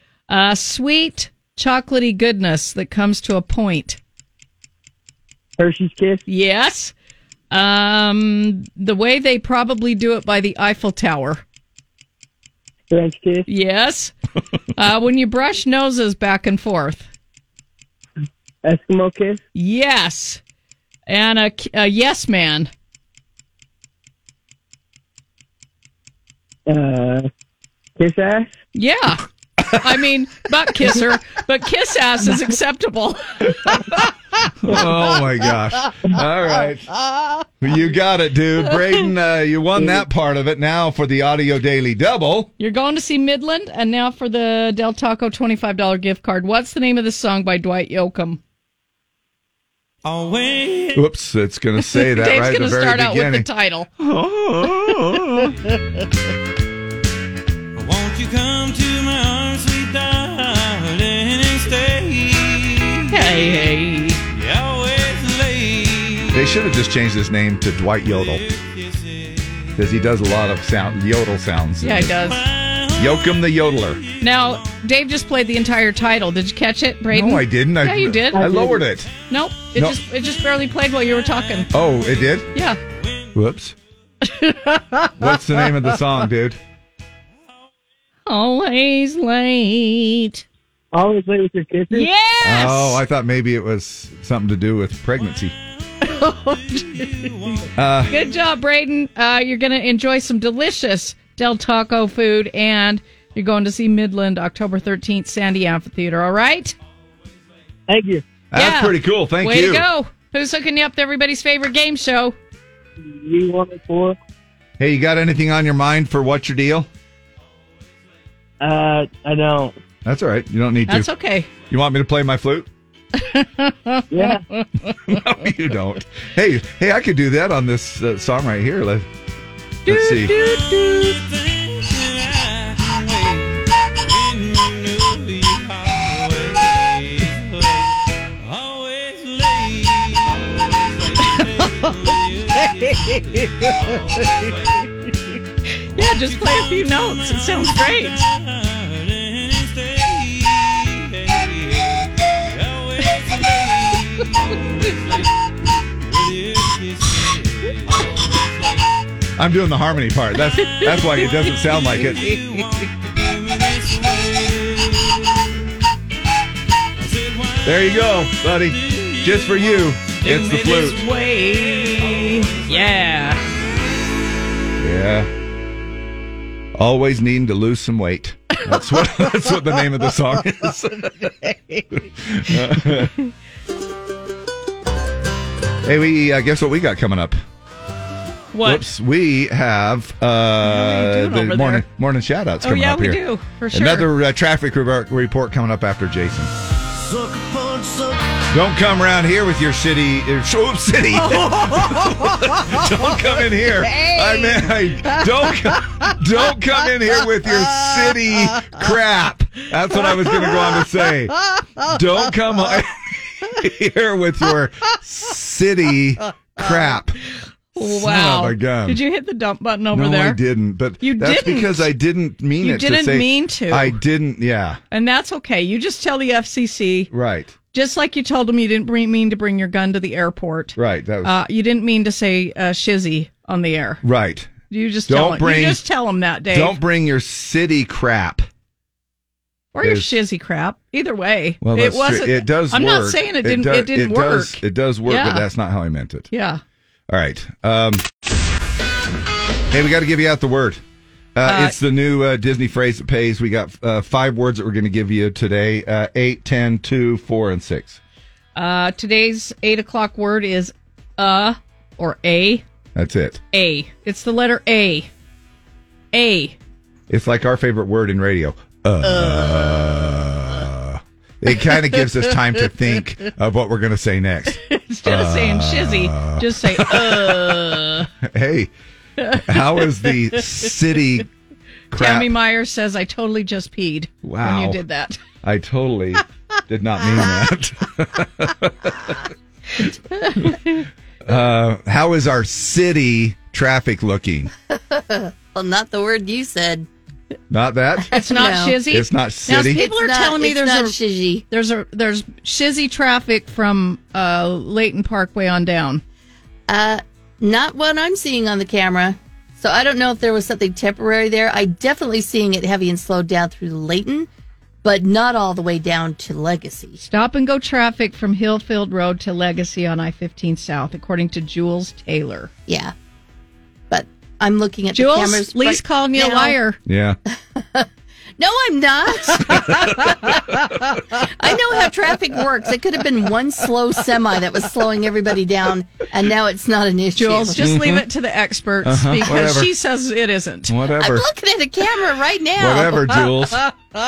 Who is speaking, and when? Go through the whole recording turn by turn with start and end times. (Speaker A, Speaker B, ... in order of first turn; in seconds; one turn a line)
Speaker A: 0.3-4.0
Speaker B: 5.6-6.2
Speaker A: 6.3-6.9
Speaker A: 7.5-11.4
Speaker B: 12.9-13.4
Speaker A: 13.5-14.1
Speaker A: 14.8-17.1
Speaker B: 18.6-19.4
Speaker A: 19.6-20.4
Speaker A: 21.1-22.7
Speaker B: 26.7-27.3
Speaker B: 28.0-28.5
Speaker A: 28.7-29.2
Speaker A: 29.8-33.2
Speaker C: 34.6-36.9
Speaker C: 37.6-42.5
Speaker B: 39.8-40.0
Speaker A: 42.6-48.4
Speaker D: 50.1-50.9
Speaker C: 50.9-53.5
Speaker A: 52.0-53.9
Speaker C: 54.0-55.5
Speaker D: 57.9-62.8
Speaker A: 63.1-64.2
Speaker D: 64.4-66.1
Speaker C: 66.3-68.4
Speaker C: 69.8-72.2
Speaker A: 71.8-72.5
Speaker C: 73.0-74.0
Speaker A: 74.2-78.5
Speaker C: 77.1-79.1
Speaker B: 78.3-78.9
Speaker A: 79.3-81.7
Speaker C: 81.7-82.5
Speaker C: 83.3-83.8
Speaker A: 84.3-84.7
Speaker C: 85.2-86.6
Speaker A: 88.3-90.4
Speaker B: 90.9-92.1
Speaker A: 91.9-93.0
Speaker C: 92.4-95.5
Speaker C: 97.8-98.1
Speaker A: 98.1-106.7
Speaker B: 107.9-108.2
Speaker C: 108.5-109.9
Speaker A: 108.5-112.4
Speaker B: 113.0-114.2
Speaker C: 114.8-116.9
Speaker B: 118.6-119.7
Speaker C: 120.0-121.1
Speaker A: 120.9-121.5
Speaker C: 121.7-122.7
Speaker A: 123.2-125.0
Speaker B: 124.1-124.4
Speaker C: 125.1-129.1
Speaker A: 129.9-131.2
Speaker C: 129.9-130.3
Speaker D: 132.1-133.3
Speaker D: 134.3-137.1
Speaker D: 138.6-142.8
Speaker A: 145.9-148.3
Speaker D: 149.3-150.4
Speaker D: 153.7-154.0
Speaker C: 159.4-162.4
Speaker C: 167.6-171.0
Speaker A: 170.2-173.4
Speaker C: 174.8-175.3
Speaker C: 176.8-181.3
Speaker C: 182.1-183.1
Speaker C: 185.8-187.4
Speaker A: 188.5-188.9
Speaker C: 188.6-193.2
Speaker A: 190.6-191.8
Speaker A: 192.6-194.1
Speaker C: 193.7-196.5
Speaker C: 198.5-217.2
Speaker A: 217.7-220.4
Speaker C: 217.8-219.0
Speaker C: 219.9-224.8
Speaker A: 221.0-221.9
Speaker A: 222.6-224.0
Speaker A: 224.9-227.1
Speaker C: 227.1-227.5
Speaker A: 227.7-234.0
Speaker C: 230.8-231.4
Speaker C: 234.0-234.5
Speaker A: 234.7-236.8
Speaker C: 235.1-235.8
Speaker C: 236.5-238.5
Speaker A: 239.7-245.4
Speaker C: 239.8-240.1
Speaker C: 241.6-246.3
Speaker A: 246.3-246.6
Speaker C: 247.1-248.0
Speaker C: 249.7-250.8
Speaker C: 251.3-258.0
Speaker A: 251.4-251.7
Speaker A: 258.6-262.6
Speaker C: 262.9-263.4
Speaker A: 263.5-265.1
Speaker A: 266.1-266.6
Speaker C: 267.1-277.6
Speaker A: 274.6-278.1
Speaker C: 278.2-278.7
Speaker C: 279.4-281.3
Speaker C: 281.9-282.3
Speaker A: 281.9-285.2
Speaker C: 284.2-284.8
Speaker C: 285.4-289.2
Speaker C: 291.2-294.5
Speaker E: 294.9-296.9
Speaker C: 297.5-298.2
Speaker A: 298.1-301.0
Speaker E: 298.2-298.8
Speaker C: 298.8-299.8
Speaker E: 299.7-301.4
Speaker A: 301.5-306.0
Speaker E: 306.7-314.3
Speaker E: 314.8-317.0
Speaker A: 317.0-322.5
Speaker E: 322.7-322.9
Speaker E: 323.9-326.6
Speaker A: 324.9-326.8
Speaker C: 326.9-327.2
Speaker E: 327.5-327.9
Speaker E: 328.4-330.4
Speaker E: 331.2-337.7
Speaker A: 337.1-340.7
Speaker C: 337.6-338.1
Speaker C: 338.8-339.7
Speaker C: 340.7-341.3
Speaker E: 341.0-343.0
Speaker C: 342.6-343.6